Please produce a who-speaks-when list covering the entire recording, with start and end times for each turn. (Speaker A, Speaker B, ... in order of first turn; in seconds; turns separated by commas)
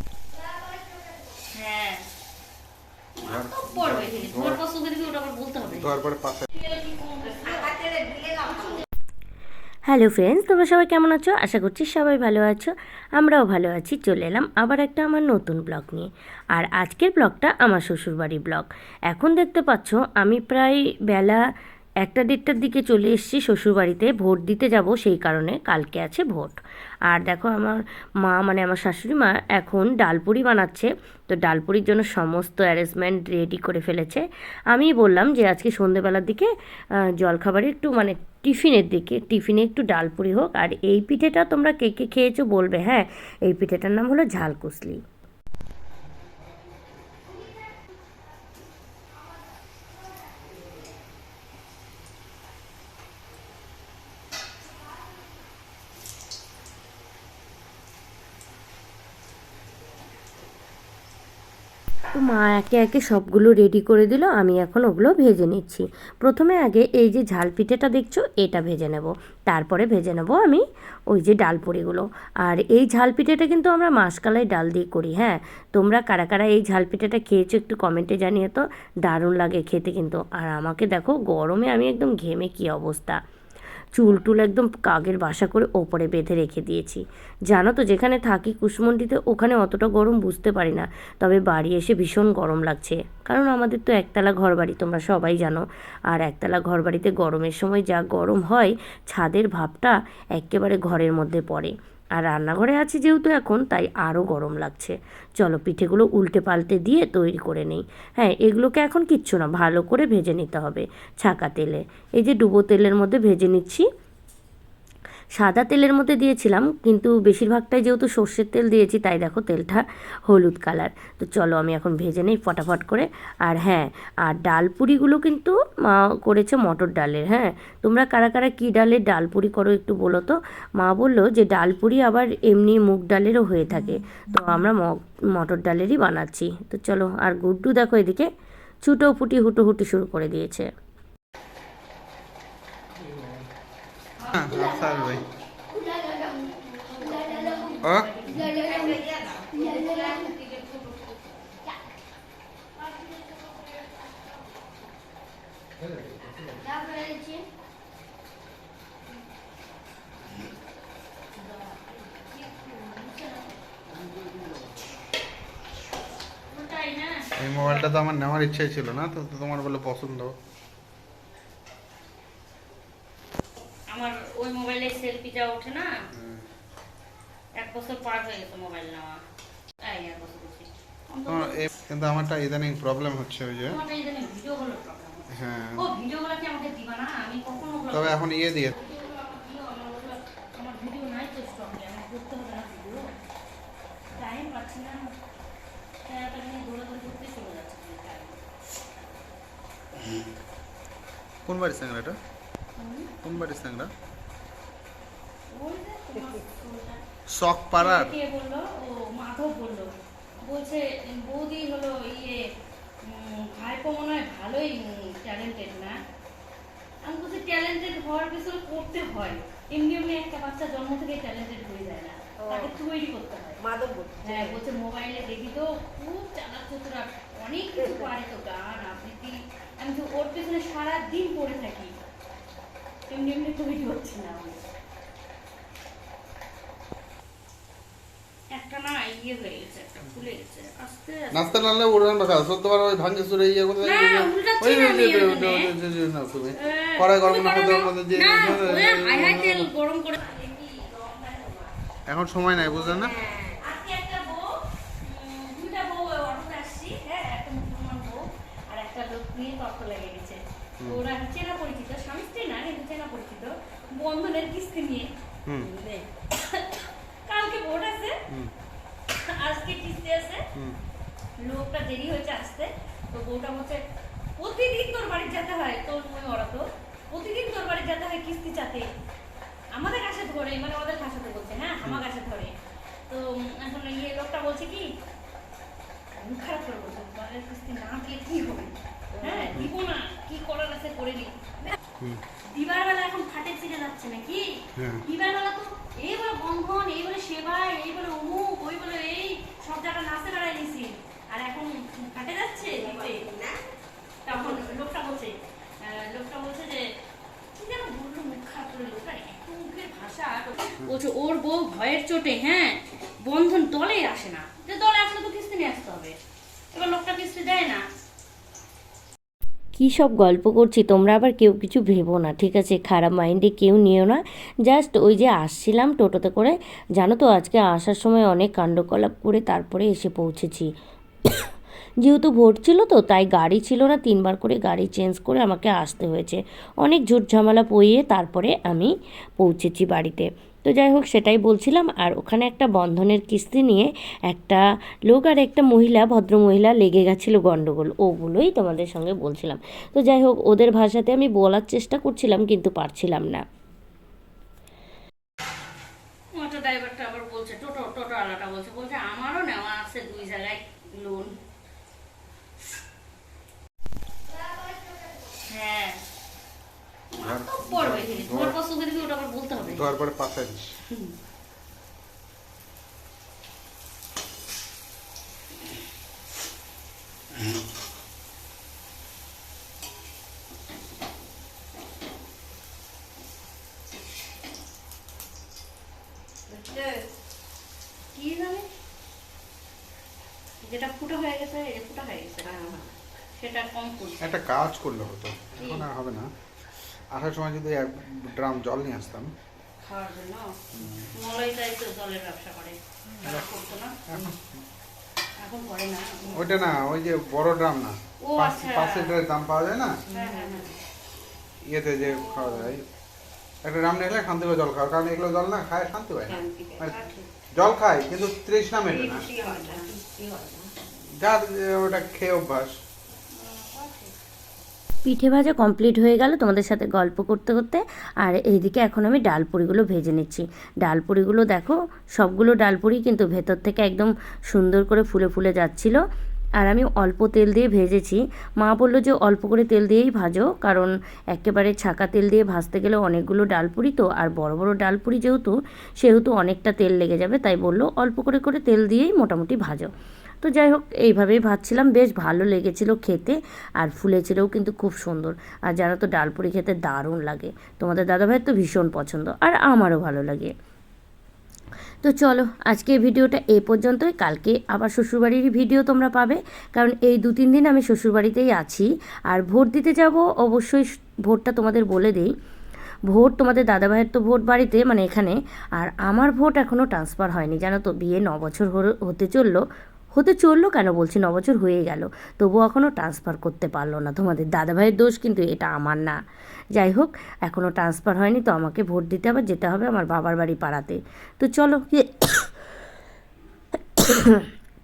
Speaker A: 1.5-2.0, Speaker A: 3.2-6.0, Speaker B: 3.2-4.6, Speaker B: 5.6-6.5, Speaker A: 6.5-7.8, Speaker C: 7.4-8.7, Speaker D: 9.8-21.4, Speaker D: 22.0-26.6, Speaker D: 27.1-36.5, Speaker D: 37.1-45.0, Speaker D: 62.1-83.2, Speaker D: 83.9-113.8, Speaker D: 115.4-138.3, Speaker D: 138.8-140.7, Speaker A: 144.2-144.6, Speaker B: 144.3-145.2, Speaker A: 145.8-148.9, Speaker C: 148.5-151.3, Speaker A: 152.8-154.2, Speaker A: 161.3-163.6, Speaker A: 166.5-167.9, Speaker B: 167.4-170.3, Speaker A: 173.9-175.9, Speaker B: 176.1-176.4, Speaker A: 177.6-179.2, Speaker A: 179.8-181.6, Speaker B: 181.3-183.8, Speaker A: 183.7-188.2, Speaker B: 185.3-185.8, Speaker B: 187.9-188.7, Speaker A: 188.7-193.0, Speaker A: 194.1-195.1, Speaker A: 196.1-198.4, Speaker B: 201.4-202.2, Speaker A: 202.8-203.1, Speaker B: 203.2-203.9, Speaker A: 205.5-207.0, Speaker B: 207.3-208.1, Speaker A: 207.8-209.9, Speaker A: 210.4-212.4, Speaker A: 213.0-215.9, Speaker A: 217.0-223.6, Speaker C: 222.4-222.7, Speaker C: 223.6-224.6, Speaker A: 224.2-231.9, Speaker A: 233.1-234.6, Speaker A: 238.5-241.5, Speaker B: 241.3-249.7, Speaker A: 243.8-245.7, Speaker A: 246.5-251.7, Speaker B: 252.1-253.2, Speaker A: 252.8-268.2, Speaker C: 252.9-253.4, Speaker A: 269.1-270.4, Speaker A: 271.4-273.8, Speaker A: 274.4-278.9, Speaker A: 279.7-282.5, Speaker A: 283.1-284.9, Speaker A: 286.1-291.7, Speaker C: 289.1-289.5, Speaker A: 292.5-303.3, Speaker B: 294.8-295.0, Speaker C: 302.7-303.6, Speaker A: 304.2-306.9, Speaker A: 307.5-316.1, Speaker A: 316.7-317.8, Speaker D: 319.8-330.7, Speaker D: 332.0-353.4, Speaker A: 356.3-361.3, Speaker C: 364.5-365.1, Speaker A: 365.4-366.0, Speaker A: 367.1-369.9, Speaker B: 367.2-368.6, Speaker B: 369.6-370.7, Speaker C: 386.5-387.1, Speaker A: 388.1-388.7, Speaker A: 390.6-392.8, Speaker C: 392.4-392.9, Speaker A: 393.4-394.4, Speaker B: 394.2-396.3, Speaker A: 395.6-395.9, Speaker B: 397.1-399.3, Speaker A: 399.8-400.6, Speaker B: 400.7-401.1, Speaker A: 401.1-404.2, Speaker B: 404.1-404.6, Speaker A: 405.4-406.6, Speaker B: 406.3-410.0, Speaker A: 408.2-409.1, Speaker C: 410.1-410.7, Speaker A: 410.1-410.7, Speaker B: 411.7-412.9, Speaker A: 412.0-412.7, Speaker B: 413.6-416.9, Speaker C: 416.3-416.9, Speaker A: 416.8-417.3, Speaker B: 417.6-419.3, Speaker C: 418.9-420.7, Speaker A: 419.3-419.9, Speaker B: 421.2-422.7, Speaker A: 423.3-424.1, Speaker D: 425.0-436.0, Speaker D: 436.6-449.9, Speaker D: 450.4-460.5, Speaker D: 462.0-472.3, Speaker D: 473.1-479.6, Speaker D: 480.1-486.2, Speaker D: 486.8-492.5, Speaker D: 494.0-494.5